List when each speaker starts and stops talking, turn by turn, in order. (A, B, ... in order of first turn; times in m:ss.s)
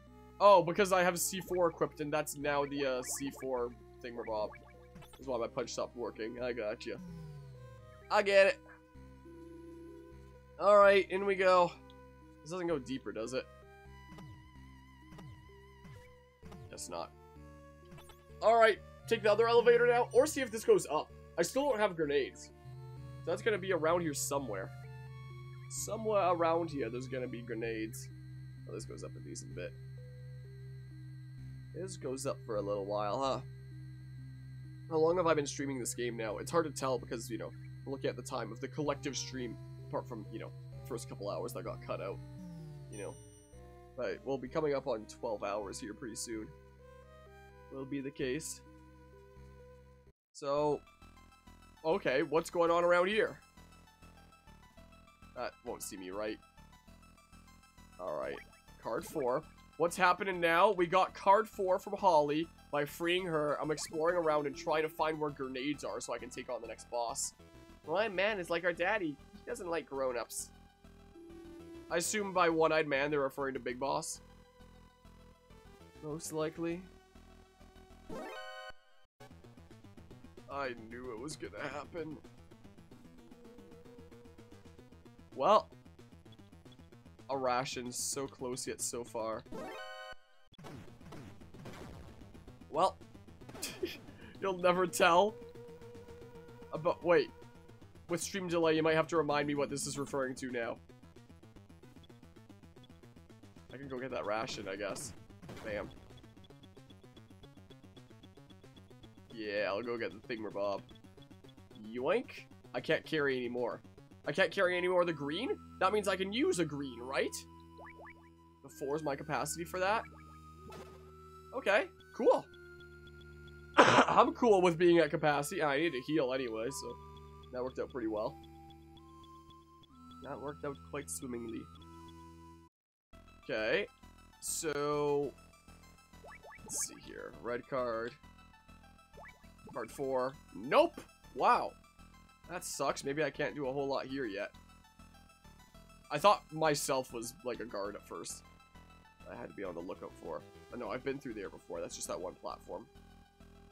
0:00.4-0:04.5 A
0:05.2-0:07.0 A
0:08.1-0:08.6 A
0:10.6-0:11.7 A
0:12.4-0:13.5 A
0:16.7-0:17.1 A
0:18.4-0:22.5 A
0:23.2-0:24.7 A
0:25.7-0:28.1 A
0:28.6-0:29.8 A
0:31.7-0:33.4 A
0:34.9-0:42.2 A
0:42.9-0:43.2 A
0:44.0-0:46.5 A
0:47.7-0:48.6 A
0:50.3-0:50.8 A
0:51.8-0:53.4 A
0:55.3-0:56.4 A
0:58.0-1:07.3 A
1:07.8-1:10.5 A
1:11.9-1:14.2 A
1:16.0-1:16.9 A
1:20.5-1:22.2 A
1:25.3-1:25.7 A
1:27.3-1:29.4 A
1:32.7-1:33.0 A
1:33.6-1:35.4 A
1:36.7-1:37.3 A
1:38.1-1:40.8 A
1:43.7-1:45.9 A
1:49.3-1:50.9 A
1:51.7-1:57.5 A
1:58.6-2:00.1 A
2:01.5-2:02.5 A
2:03.8-2:07.0 A
2:07.5-2:08.4 A
2:10.2-2:11.7 A
2:13.4-2:13.9 A
2:14.4-2:15.4 A
2:16.7-2:18.2 A
2:19.7-2:21.8 A
2:22.5-2:24.5 A
2:26.1-2:28.4 A
2:29.2-2:32.9 A